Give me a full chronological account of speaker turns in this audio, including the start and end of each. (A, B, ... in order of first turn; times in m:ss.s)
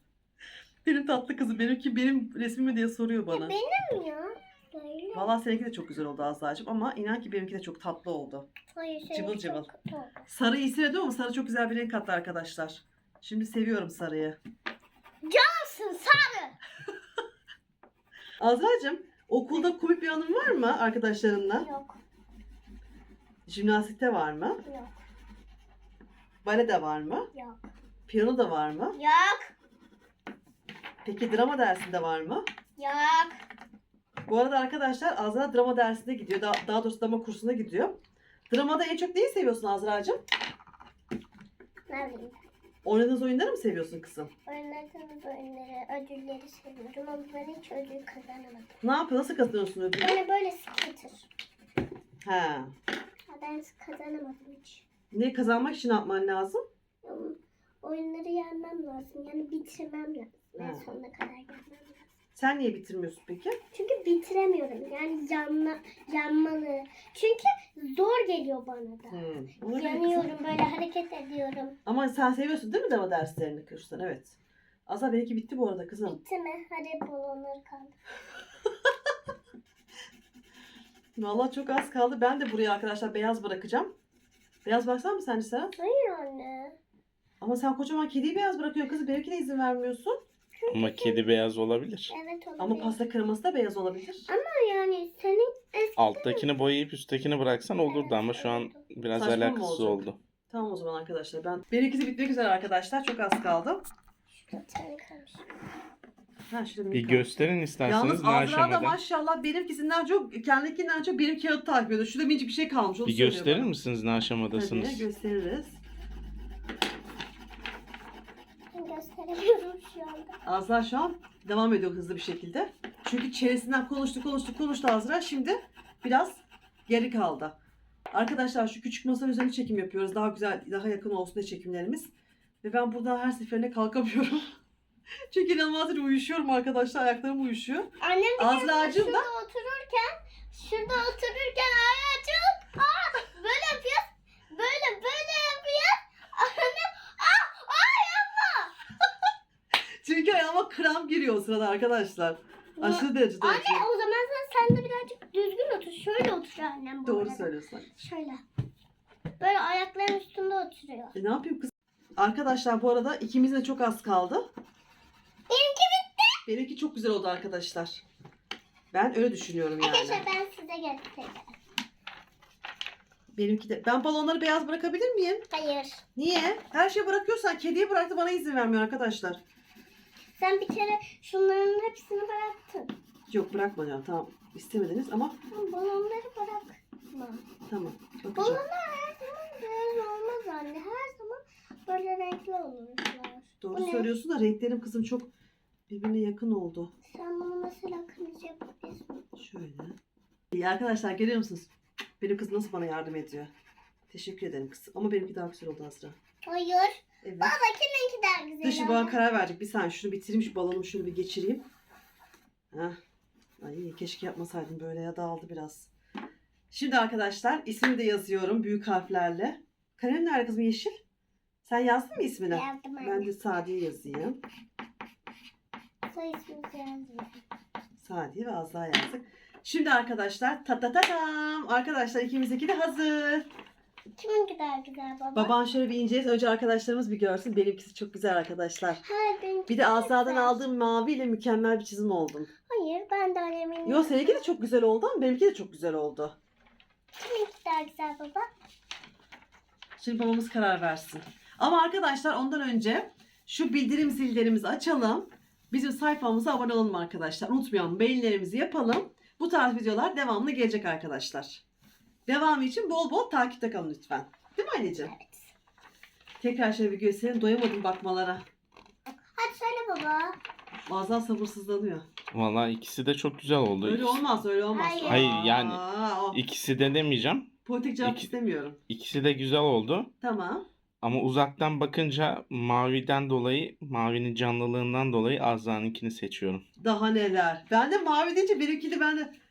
0:00.8-0:03.5 A
0:03.3-0:05.4 B
0:05.1-0:08.5 A
0:08.7-0:10.2 B
0:09.1-0:09.7 A
0:10.3-0:14.4 A
0:15.2-0:16.5 B
0:18.4-0:21.7 A
0:21.5-0:22.0 B
0:23.5-0:24.6 A
0:24.6-0:24.9 B
0:26.4-0:27.3 A
0:27.3-0:27.7 B
0:28.1-0:29.0 A
0:28.9-0:29.5 B
0:31.0-0:32.4 A
0:32.8-0:33.4 B
0:34.2-0:38.0 A
0:38.5-0:40.2 A
0:41.9-0:42.4 B
0:42.8-0:44.3 A
0:44.4-0:48.8 B
0:48.8-0:50.2 A
0:50.0-0:51.3 B
0:52.2-0:52.7 A
0:53.3-0:54.8 B
0:55.1-0:56.6 A
0:57.0-1:02.1 B
1:00.6-1:00.9 A
1:02.4-1:03.6 A
1:03.7-1:11.7 B
1:09.1-1:10.3 A
1:11.8-1:14.3 A
1:14.9-1:16.2 A
1:16.0-1:18.0 B
1:21.2-1:23.9 A
1:24.6-1:25.7 A
1:25.7-1:26.8 B
1:27.4-1:30.2 A
1:30.6-1:31.3 B
1:30.7-1:32.1 C
1:32.1-1:33.0 B
1:32.6-1:34.3 A
1:34.3-1:36.5 B
1:36.0-1:40.2 C
1:37.8-1:38.8 B
1:39.1-1:43.8 A
1:44.3-1:45.4 B
1:46.5-1:53.8 A
1:46.9-1:49.0 C
1:53.0-1:55.0 C
1:54.5-1:55.8 A
1:58.7-2:00.3 B
2:00.4-2:07.5 A
2:08.1-2:12.1 A
2:12.6-2:14.5 A
2:15.3-2:19.3 A
2:18.0-2:28.7 B
2:30.0-2:33.8 A
2:32.8-2:38.4 B
2:37.0-2:37.9 A
2:39.4-2:41.2 B
2:41.1-2:44.5 A
2:45.5-2:46.4 B
2:46.4-2:48.0 A
2:48.9-2:50.2 A
2:49.8-2:51.6 B
2:53.3-2:55.4 A
2:55.5-2:56.0 B
2:56.2-2:59.4 A
3:00.4-3:02.9 B
3:03.3-3:05.4 A
3:05.5-3:07.4 B
3:07.7-3:08.6 A
3:08.3-3:14.1 B
3:13.6-3:15.3 A
3:15.9-3:16.9 A
3:17.1-3:19.1 B
3:19.4-3:20.0 A
3:20.5-3:21.7 A
3:22.2-3:23.5 A
3:24.1-3:26.2 A
3:26.4-3:29.2 B
3:27.2-3:27.5 A
3:28.6-3:31.6 A
3:32.7-3:33.0 A
3:33.6-3:35.9 A
3:36.7-3:40.9 A
3:41.6-3:44.4 A
3:42.5-3:43.3 B
3:46.1-3:47.4 B
3:48.0-3:53.5 A
3:54.2-3:55.5 B
3:55.3-3:59.0 A
3:59.0-4:00.6 B
3:59.7-4:02.5 A
4:02.7-4:04.4 B
4:03.8-4:06.4 A
4:07.2-4:08.5 B
4:10.0-4:21.6 A
4:22.3-4:25.1 A
4:24.9-4:25.5 B
4:26.4-4:28.4 A
4:29.3-4:30.4 B
4:30.9-4:32.1 A
4:32.3-4:34.2 C
4:33.8-4:36.4 A
4:34.7-4:35.3 B
4:35.0-4:37.5 C
4:37.6-4:38.8 A
4:38.0-4:38.3 C
4:38.9-4:40.1 C
4:40.2-4:40.6 A
4:41.0-4:46.6 C
4:46.8-4:49.3 A